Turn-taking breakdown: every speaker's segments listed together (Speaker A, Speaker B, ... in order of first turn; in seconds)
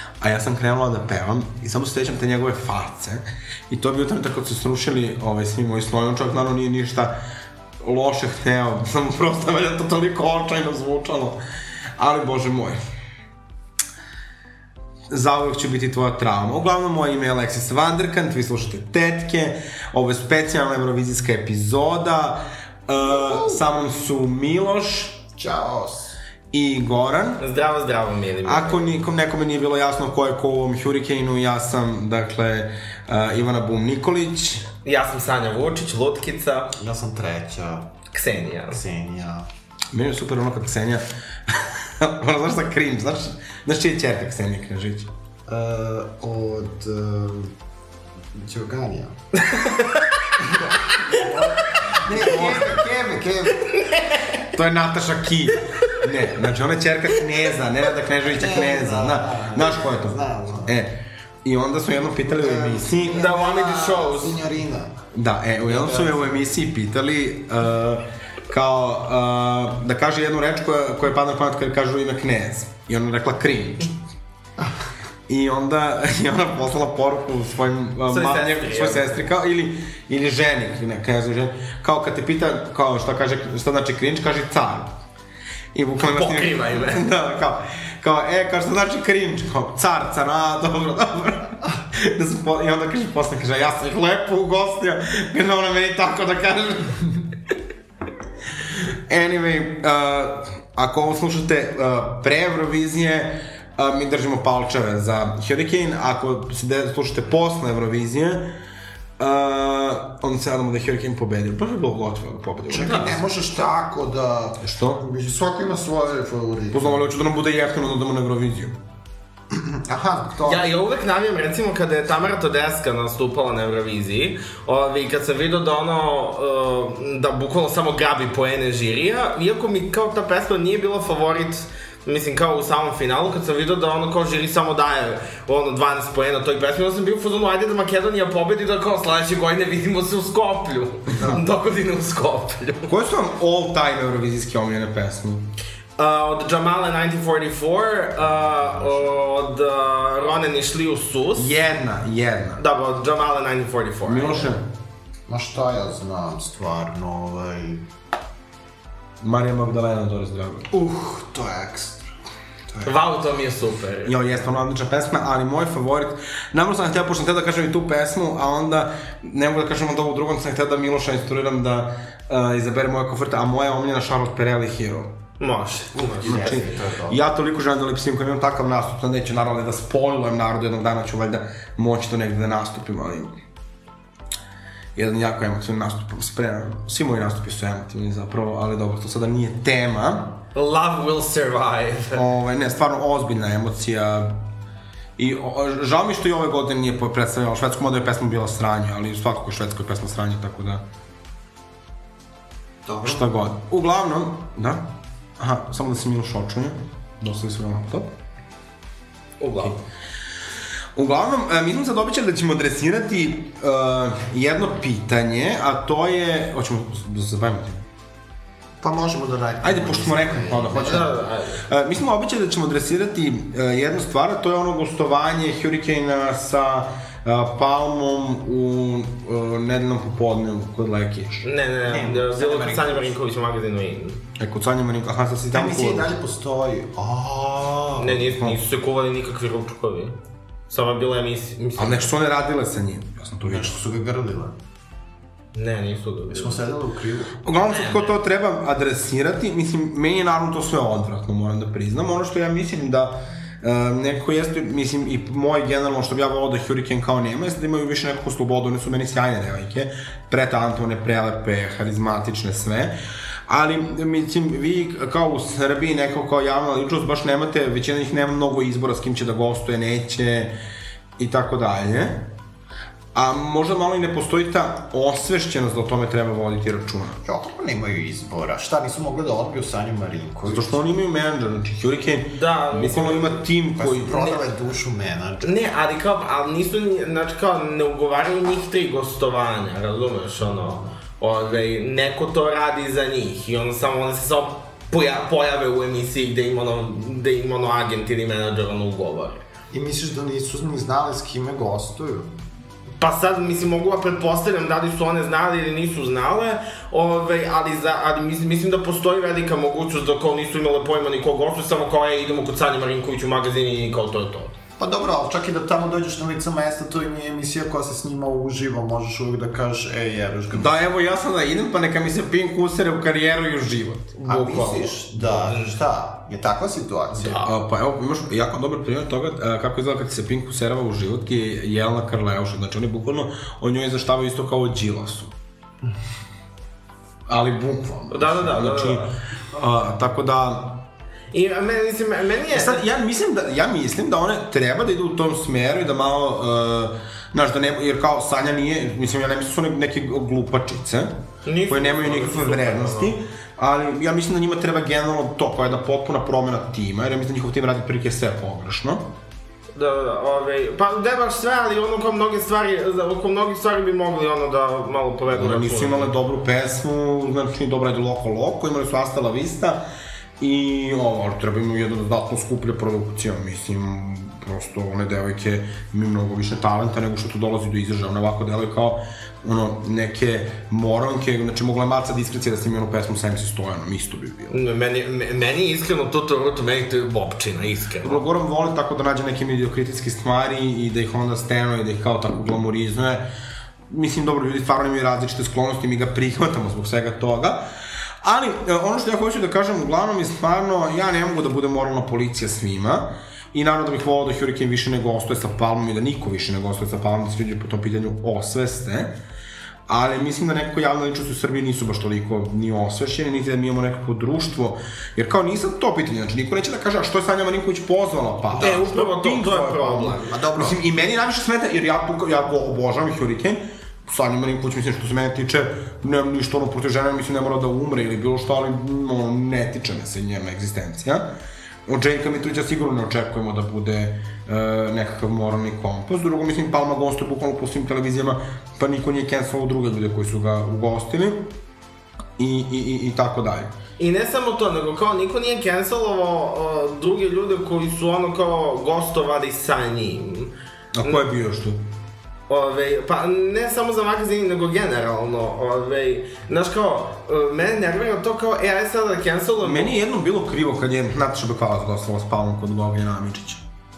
Speaker A: 0.2-7.2, 7.8-11.4, 12.0-12.8, 15.1-25.2, 26.5-27.4, 28.4-34.7, 39.9-45.1, 54.5-63.3, 65.1-73.9, 75.3-85.0, 85.7-97.1, 99.1-108.6, 109.2-113.2, 114.6-115.0, 116.7-118.8, 141.2-141.4, 142.9-145.5, 151.4-152.6, 154.1-154.7, 159.2-160.7, 164.1-175.2, 176.2-183.3, 185.0-190.4, 192.1-194.4, 195.2-200.8, 203.0-208.1, 211.0-217.8, 219.6-231.5, 234.4-236.1, 241.8-243.8, 247.4-262.9, 263.5-270.6, 271.2-272.3, 273.1-277.2, 280.5-284.2, 320.5-324.9, 327.4-335.4, 337.3-340.9, 342.5-359.1, 365.3-369.8, 370.4-384.6, 388.0-393.3, 393.9-397.6, 398.2-409.1, 409.9-431.3, 431.9-441.5, 442.4-443.7, 450.9-451.9, 459.6-463.6
Speaker B: 23.2-23.6, 25.4-26.2, 36.8-37.9, 38.6-39.5, 45.5-47.5, 48.3-49.2, 50.4-53.8, 58.3-60.8, 62.3-65.0, 65.7-66.4, 112.7-117.0, 119.5-120.7, 155.3-157.9, 160.7-162.1, 162.7-162.9, 176.0-177.2, 202.9-203.3, 218.8-221.1, 231.9-233.1, 235.5-238.2, 243.4-244.6, 246.3-247.4, 277.2-280.9, 283.8-285.8, 299.7-302.3, 314.8-320.8, 324.2-327.5, 418.6-418.8, 420.3-420.8
Speaker C: 27.4-28.9, 34.9-36.8, 38.1-38.8, 49.4-50.0, 53.9-54.2, 63.0-64.4, 78.1-79.3, 86.0-87.0, 120.4-142.9, 146.0-151.6, 152.6-154.5, 162.8-164.2, 175.4-176.6, 190.6-192.2, 209.4-209.8, 220.7-221.7, 231.4-234.2, 238.0-240.2, 240.7-242.1, 245.6-246.6, 247.7-248.1, 282.3-283.4, 284.1-284.4, 285.4-299.4, 303.0-314.6, 327.1-327.5, 338.1-339.1, 341.3-342.8, 351.4-353.1, 359.8-366.1, 384.5-388.2, 418.6-420.3, 444.0-451.2, 452.5-459.9